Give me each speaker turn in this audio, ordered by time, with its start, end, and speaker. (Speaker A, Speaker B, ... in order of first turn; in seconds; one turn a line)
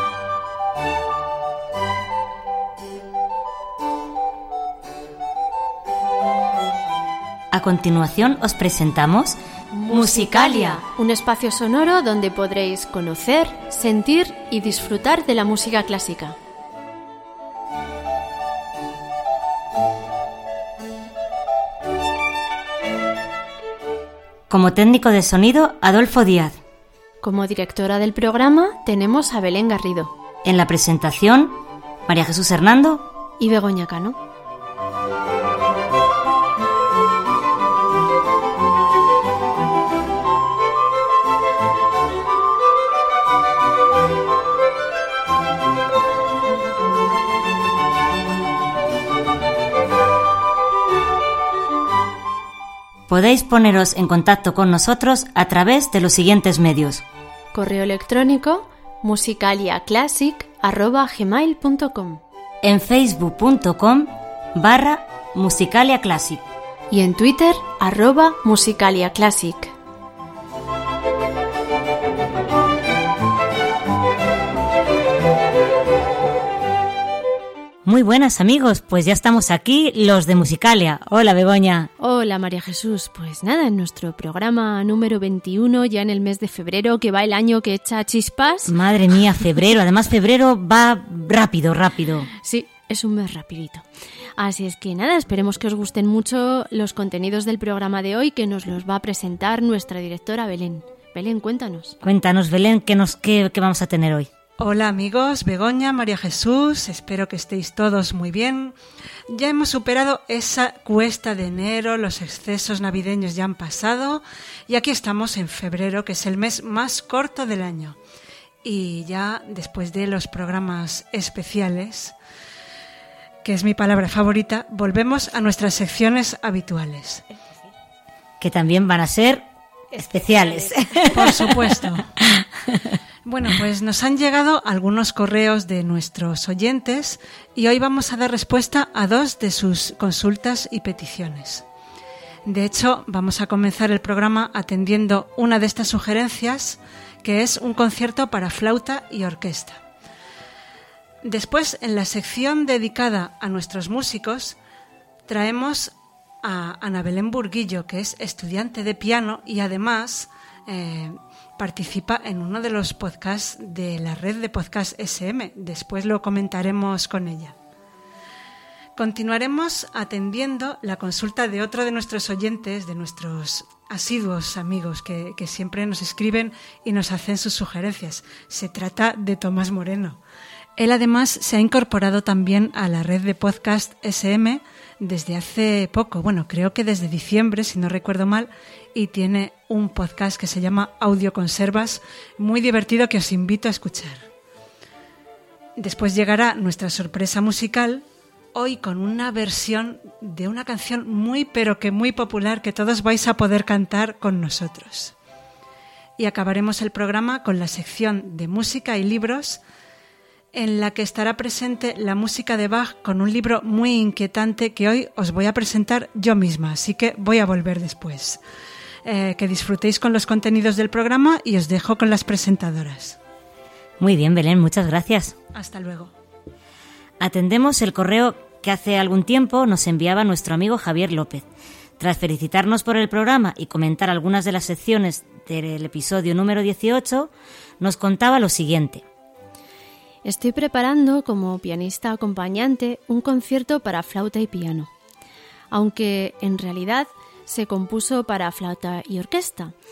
Speaker A: 7.5-9.4
Speaker B: 9.7-16.4
Speaker A: 9.9-10.8
Speaker A: 24.5-26.6
Speaker B: 27.2-30.1
Speaker A: 30.4-33.0
Speaker B: 33.4-34.2
Speaker A: 53.1-57.0
Speaker B: 57.5-62.2
Speaker A: 62.6-66.4
Speaker B: 66.9-69.7
Speaker A: 77.8-81.9
Speaker B: 82.0-88.7
Speaker A: 88.7-92.3
Speaker B: 92.4-93.8
Speaker B: 94.4-102.0
Speaker A: 102.0-104.3
Speaker C: 104.6-108.8
Speaker C: 109.3-118.0
Speaker C: 118.6-122.2
Speaker C: 123.4-127.2
Speaker A: 128.4-132.8
Speaker B: 130.2-130.7
Speaker C: 131.1-132.1
Speaker C: 133.2-141.7
Speaker C: 142.4-149.8
Speaker C: 151.2-154.6
Speaker C: 155.3-167.6
Speaker C: 168.9-180.2
Speaker C: 180.8-194.3
Speaker C: 195.8-205.1
Speaker C: 206.2-209.6
Speaker C: 210.5-218.4
Speaker C: 219.0-223.2
Speaker A: 224.0-225.3
Speaker C: 225.5-226.1
Speaker A: 227.2-231.4
Speaker A: 232.0-239.0
Speaker B: 240.2-244.9
Speaker B: 245.7-249.7